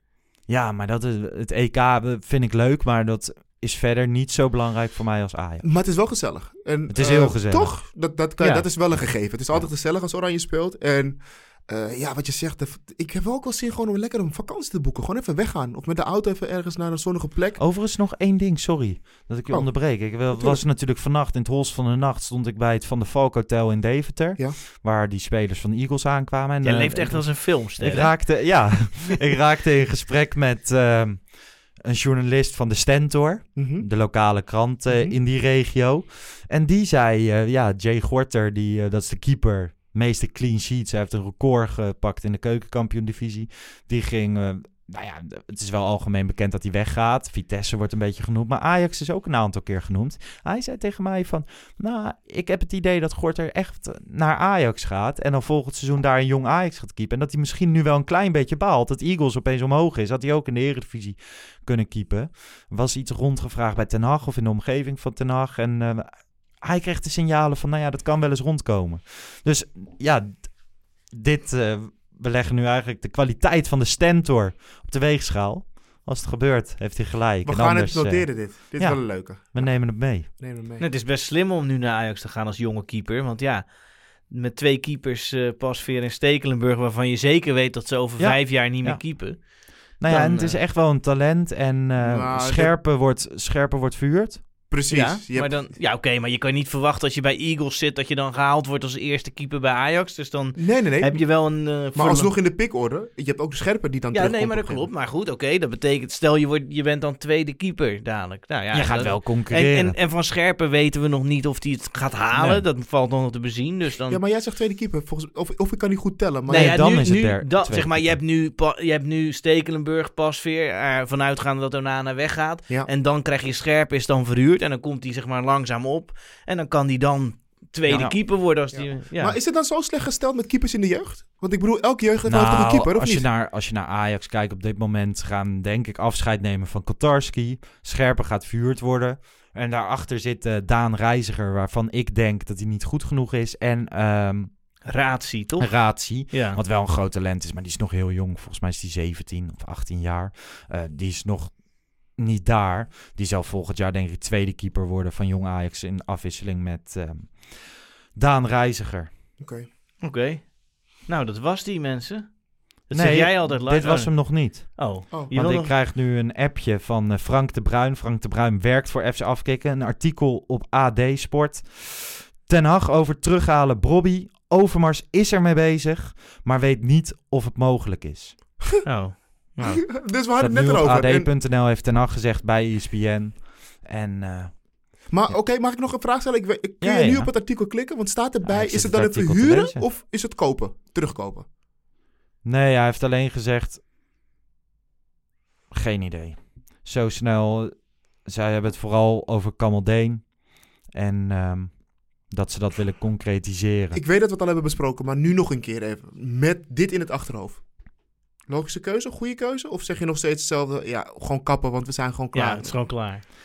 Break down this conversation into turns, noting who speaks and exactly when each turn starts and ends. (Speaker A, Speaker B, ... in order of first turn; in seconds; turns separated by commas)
Speaker A: 0.5-5.7, Speaker B: 5.6-17.6, Speaker A: 6.9-7.8, Speaker C: 8.4-8.7, Speaker A: 17.6-80.3, Speaker B: 19.5-20.6, Speaker C: 26.6-28.7, Speaker B: 33.6-33.9, Speaker B: 34.9-35.2, Speaker B: 77.4-80.8, Speaker C: 80.8-90.6, Speaker A: 88.2-94.5, Speaker B: 92.0-92.8, Speaker B: 94.7-95.7, Speaker C: 94.9-102.3, Speaker B: 100.6-104.9, Speaker C: 104.1-114.2, Speaker A: 108.7-110.0, Speaker A: 112.3-112.6, Speaker B: 114.1-117.0, Speaker C: 116.5-129.4, Speaker A: 116.5-118.2, Speaker A: 127.9-128.2, Speaker B: 128.7-133.3, Speaker A: 132.3-144.7, Speaker C: 144.9-146.6, Speaker A: 145.6-159.1, Speaker B: 159.4-159.7, Speaker C: 160.0-165.8, Speaker A: 162.9-178.4, Speaker C: 178.8-179.8, Speaker B: 179.6-181.3, Speaker A: 180.4-185.4, Speaker B: 185.1-191.5, Speaker A: 186.8-187.4, Speaker A: 188.4-189.9, Speaker A: 192.4-193.8, Speaker A: 195.7-204.0, Speaker B: 203.9-207.9, Speaker B: 208.4-213.0, Speaker C: 212.3-213.2